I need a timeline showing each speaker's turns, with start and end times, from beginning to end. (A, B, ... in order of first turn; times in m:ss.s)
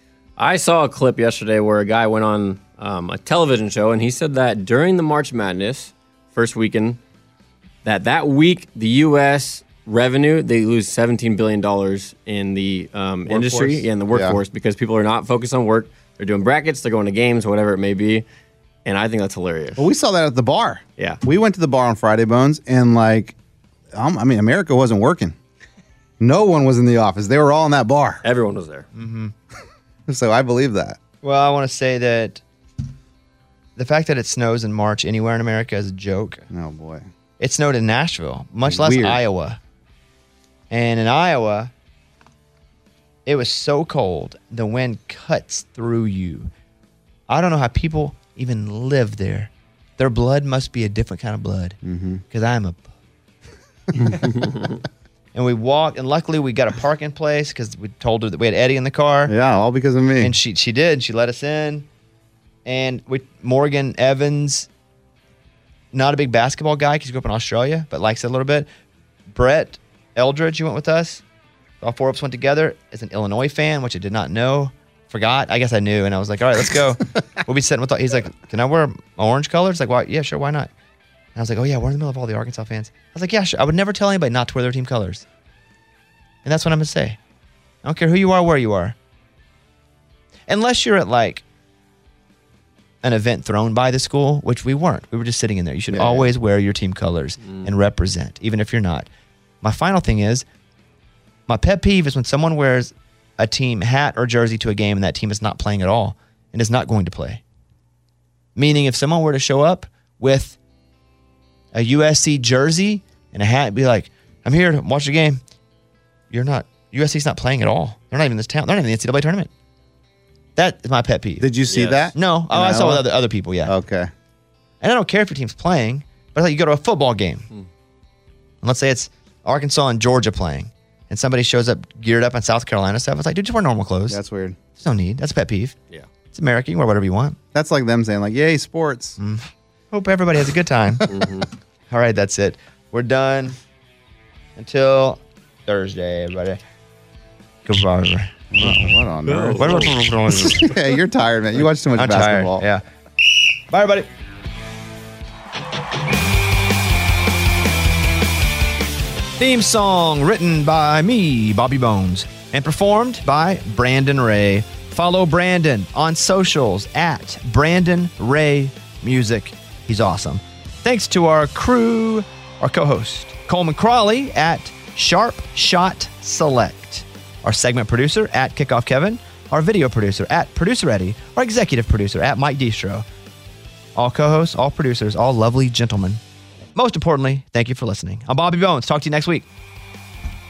0:00.4-0:07.0 A
0:07.8-0:18.3 A
0:13.3-0:14.4 B
0:18.9-0:19.8 A
0:19.8-0:23.4 B
0:23.9-0:25.4 B
0:26.2-0:28.2 B
0:28.2-0:28.9 A
0:29.0-0:29.3 C
0:30.1-0:31.0 B
0:31.2-0:32.4 C
0:33.8-0:36.4 C
0:36.5-0:37.0 B
0:37.4-0:39.6 C
0:38.6-0:39.2 B
0:40.7-0:41.7 C
0:43.3-0:46.5 C
0:47.3-0:51.8 C
0:51.8-0:52.2 B
0:52.3-0:52.9 C
0:54.0-0:54.3 B
0:55.3-0:59.3 C
0:59.3-1:00.4 B
1:00.2-1:01.9 C
1:02.6-1:04.7 C
1:05.9-1:08.7 C
1:09.3-1:11.2 C
1:11.8-1:20.7 C
1:21.4-1:25.2 C
1:26.4-1:27.2 C
1:27.8-1:29.0 C
1:30.5-1:31.4 C
1:33.0-1:39.1 C
1:35.9-1:36.3 B
1:39.6-1:40.4 C
1:41.5-1:47.4 C
1:48.6-1:50.6 C
1:51.7-1:55.4 C
1:56.3-1:59.5 C
2:00.6-2:01.5 C
2:01.4-2:03.1 B
2:01.7-2:02.1 A
2:02.1-2:03.7 C
2:03.6-2:04.1 B
2:04.8-2:07.5 C
2:08.6-2:14.2 C
2:14.1-2:14.6 B
2:14.8-2:15.8 C
2:16.3-2:17.4 C
2:17.5-2:19.2 B
2:19.2-2:21.1 C
2:21.1-2:21.5 A
2:21.9-2:23.6 C
2:24.6-2:26.6 C
2:27.7-2:28.9 C
2:28.5-2:32.6 B
2:29.3-2:30.0 A
2:29.6-2:30.7 C
2:32.0-2:32.8 C
2:33.7-2:34.1 C
2:39.4-3:03.1 C
3:04.0-3:06.2 C
3:06.7-3:09.5 C